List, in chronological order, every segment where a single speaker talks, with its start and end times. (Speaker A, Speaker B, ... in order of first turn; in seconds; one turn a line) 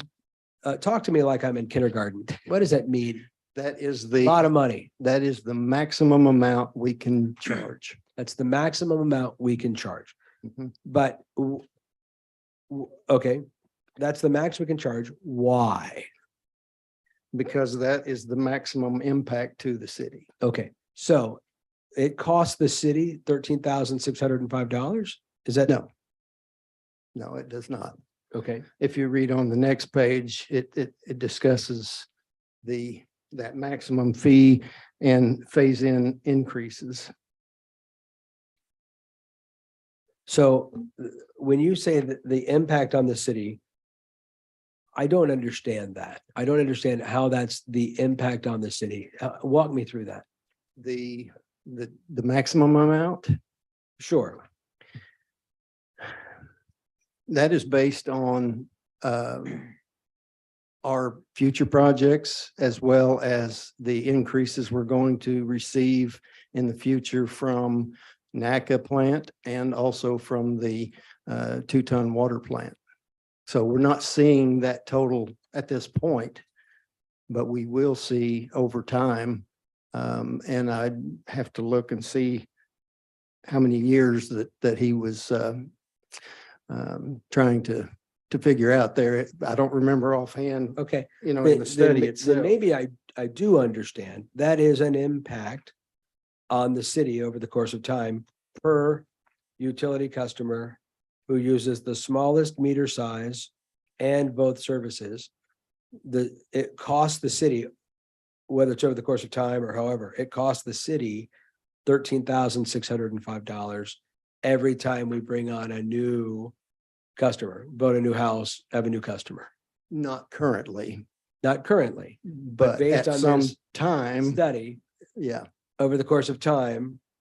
Speaker A: 0.6-3.2
Speaker B: 3.5-4.4
Speaker A: 4.2-4.9
Speaker B: 5.0-8.0
Speaker A: 8.2-10.1
Speaker A: 10.8-11.6
Speaker A: 12.7-13.4
Speaker A: 14.0-16.1
Speaker B: 17.3-20.3
Speaker A: 20.4-21.4
Speaker A: 21.9-25.7
Speaker B: 27.1-27.9
Speaker A: 28.3-28.6
Speaker B: 28.8-32.1
Speaker B: 32.6-37.1
Speaker A: 40.3-43.6
Speaker A: 45.0-50.2
Speaker B: 50.8-53.3
Speaker A: 54.0-54.4
Speaker B: 57.3-59.7
Speaker B: 60.8-72.8
Speaker B: 73.5-76.4
Speaker B: 77.3-82.5
Speaker B: 83.5-85.7
Speaker B: 86.7-92.5
Speaker A: 90.8-95.7
Speaker A: 96.5-99.0
Speaker A: 99.6-105.3
Speaker A: 106.0-107.7
Speaker A: 108.5-111.3
Speaker A: 111.8-116.5
Speaker A: 117.2-119.5
Speaker B: 119.9-121.0
Speaker A: 121.4-123.6
Speaker B: 122.3-124.4
Speaker A: 124.2-124.8
Speaker B: 125.2-125.4
Speaker A: 125.8-127.0